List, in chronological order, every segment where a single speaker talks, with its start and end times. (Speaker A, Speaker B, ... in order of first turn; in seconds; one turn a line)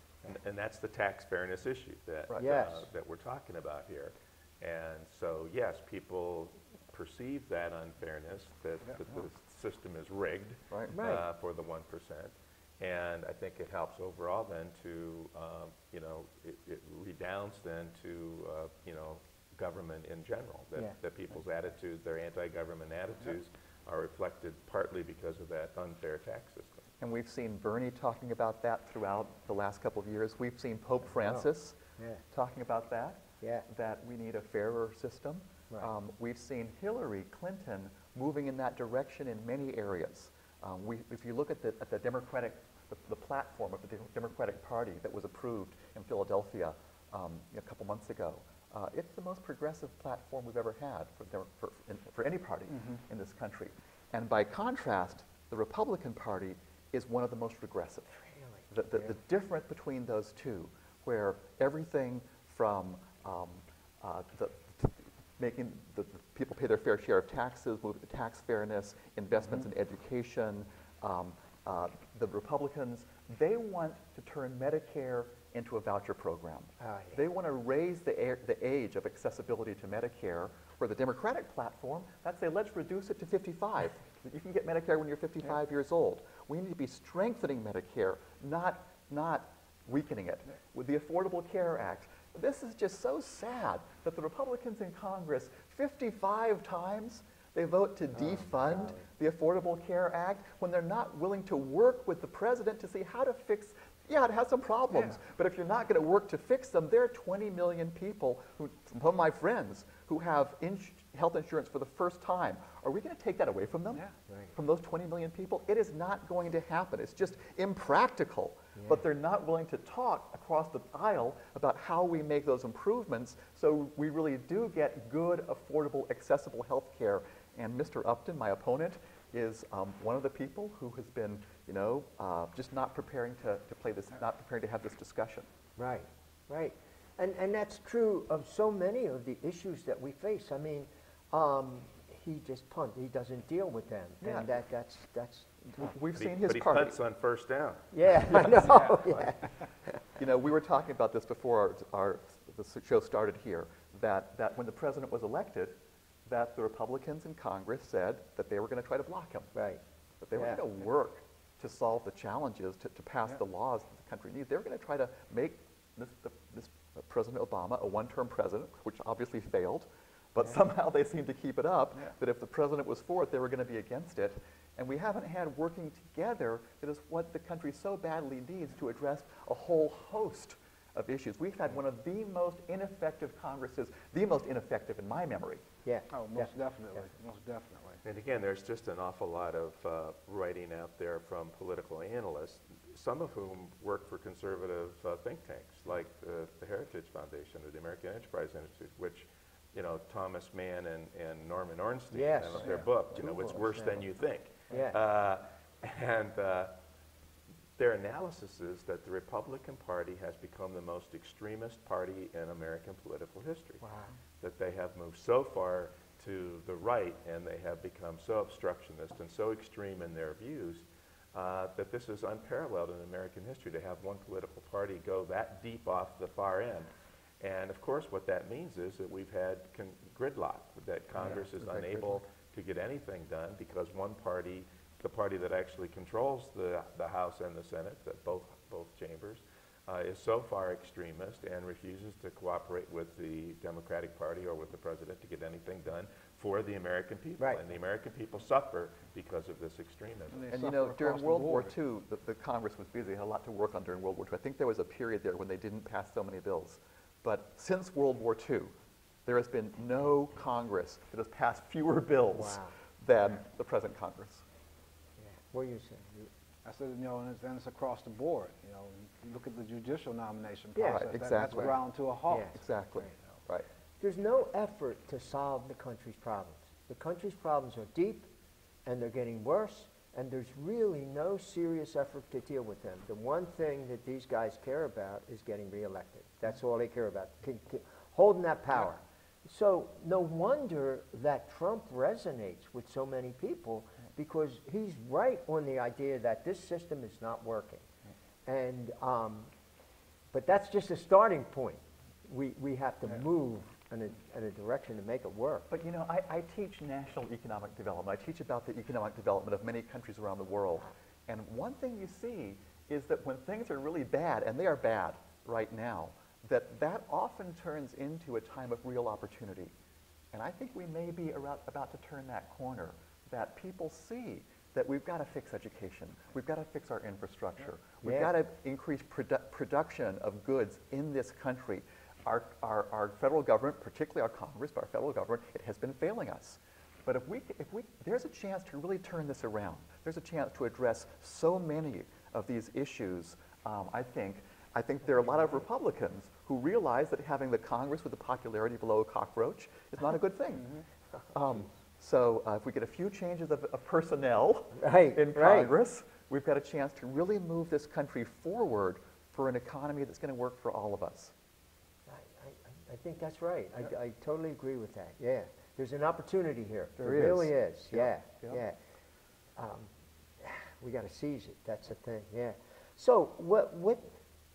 Speaker A: 0.3-26.9
Speaker B: 2.3-2.6
Speaker C: 2.4-2.9
Speaker C: 10.9-11.2
Speaker B: 27.0-31.8
Speaker C: 31.2-32.2
Speaker B: 32.3-135.5
Speaker C: 33.4-33.7
Speaker C: 76.8-77.2
Speaker C: 98.2-99.1
Speaker D: 104.9-105.2
Speaker C: 114.3-114.5
Speaker C: 118.8-119.0
Speaker C: 135.8-145.9
Speaker B: 144.2-144.5
Speaker B: 145.8-147.0
Speaker A: 146.2-148.8
Speaker C: 147.9-150.0
Speaker B: 150.2-159.5
Speaker C: 159.5-159.8
Speaker B: 160.2-185.6
Speaker C: 160.3-160.6
Speaker C: 185.8-187.0
Speaker D: 186.1-188.0
Speaker A: 188.0-206.8
Speaker C: 202.1-204.1
Speaker C: 204.7-205.0
Speaker A: 207.8-213.8
Speaker C: 213.8-214.1
Speaker A: 214.4-250.5
Speaker D: 250.3-251.7
Speaker B: 250.5-258.7
Speaker B: 259.3-264.4
Speaker C: 262.3-262.7
Speaker C: 265.2-266.3
Speaker D: 266.6-272.5
Speaker C: 270.8-271.8
Speaker B: 270.8-271.8
Speaker C: 272.3-273.1
Speaker B: 272.5-273.7
Speaker C: 274.0-278.3
Speaker C: 278.9-297.9
Speaker C: 298.5-299.5
Speaker C: 300.3-305.7
Speaker B: 305.7-319.7
Speaker B: 320.3-350.7
Speaker C: 328.0-328.3
Speaker D: 350.6-350.8
Speaker B: 351.3-361.3
Speaker C: 354.7-355.8
Speaker C: 362.1-368.8
Speaker B: 367.0-368.6
Speaker C: 369.6-369.9
Speaker C: 370.4-374.1